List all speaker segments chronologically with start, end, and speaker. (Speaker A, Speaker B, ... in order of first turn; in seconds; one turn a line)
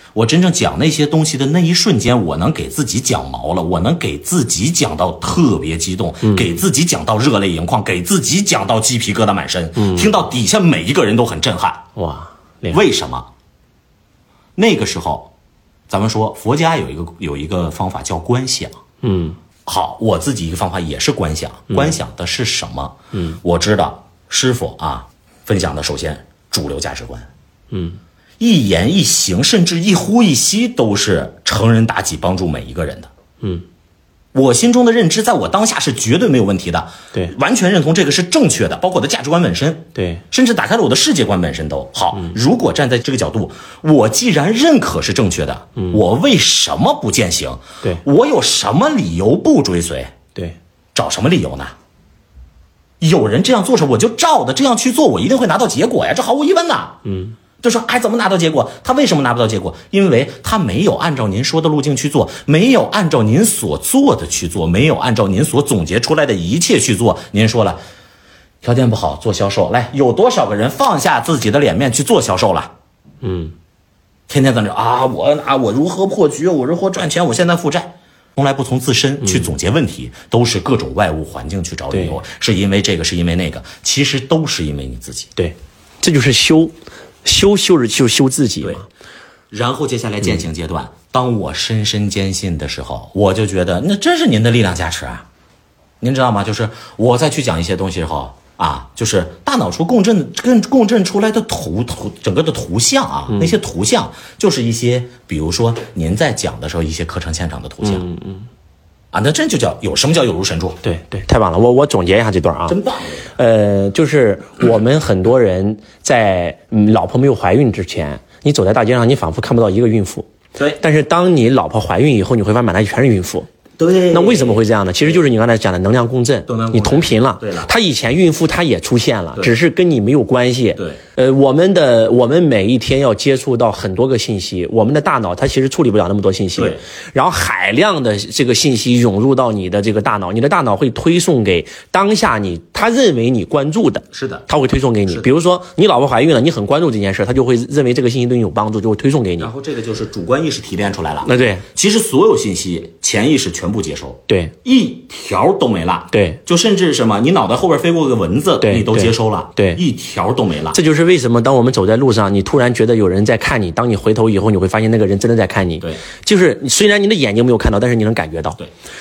Speaker A: 0.1-11.8
Speaker B: 6.2-6.5
Speaker B: 9.8-10.1
Speaker B: 12.0-12.8
Speaker A: 12.7-13.3
Speaker A: 14.6-15.3
Speaker A: 15.9-18.8
Speaker B: 19.0-19.4
Speaker A: 19.7-27.3
Speaker B: 21.7-22.0
Speaker B: 27.7-28.0
Speaker A: 28.4-33.1
Speaker A: 34.3-50.1
Speaker B: 40.0-40.2
Speaker A: 51.0-51.8
Speaker A: 53.0-57.0
Speaker B: 57.0-57.4
Speaker A: 57.6-67.8
Speaker A: 68.6-72.7
Speaker B: 73.2-73.5
Speaker A: 74.3-85.3
Speaker B: 81.9-82.2
Speaker B: 85.4-88.9
Speaker A: 89.5-95.2
Speaker A: 96.0-108.1
Speaker B: 107.8-108.5
Speaker A: 109.1-110.8
Speaker B: 110.8-112.8
Speaker A: 112.7-113.3
Speaker B: 113.4-120.3
Speaker A: 120.6-120.8
Speaker B: 120.8-123.5
Speaker A: 123.8-125.2
Speaker B: 124.1-149.5
Speaker A: 126.5-127.7
Speaker A: 130.8-131.0
Speaker A: 136.6-136.8
Speaker A: 144.1-144.5
Speaker A: 149.4-160.8
Speaker B: 151.2-151.6
Speaker B: 154.3-154.5
Speaker B: 156.1-156.4
Speaker B: 158.6-159.8
Speaker B: 160.7-168.6